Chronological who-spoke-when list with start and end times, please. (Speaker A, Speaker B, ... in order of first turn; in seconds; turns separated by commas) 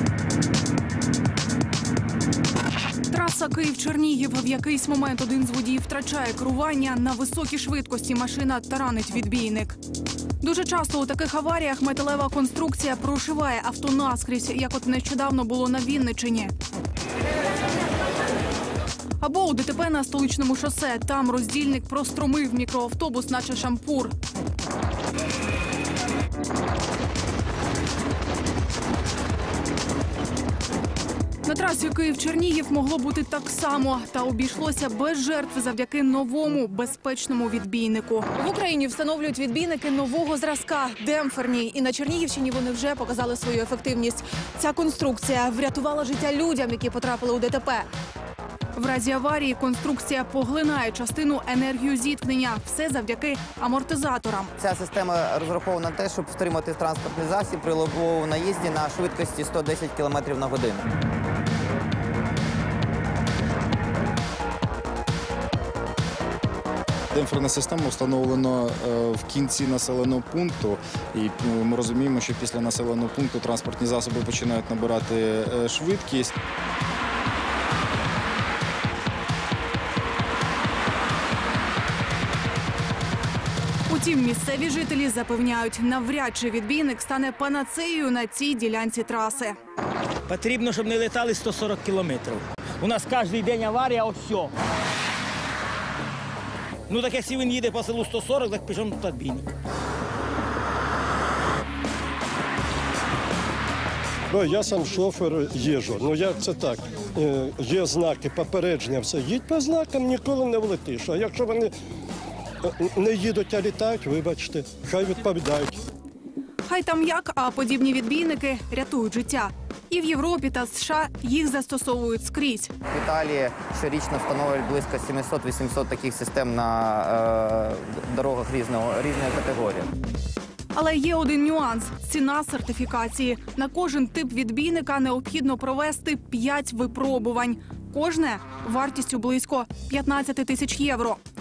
Speaker A: 3.1-9.8, Speaker A: 10.4-16.5, Speaker A: 19.2-24.1, Speaker A: 31.4-47.9, Speaker A: 48.7-54.5, Speaker B: 54.6-60.9, Speaker C: 67.1-76.3, Speaker A: 83.9-89.6, Speaker D: 90.3-94.5, Speaker D: 96.9-99.5, Speaker E: 104.3-111.7, Speaker E: 112.6-115.8, Speaker A: 116.6-122.7, Speaker B: 122.9-129.9, Speaker A: 130.7-141.2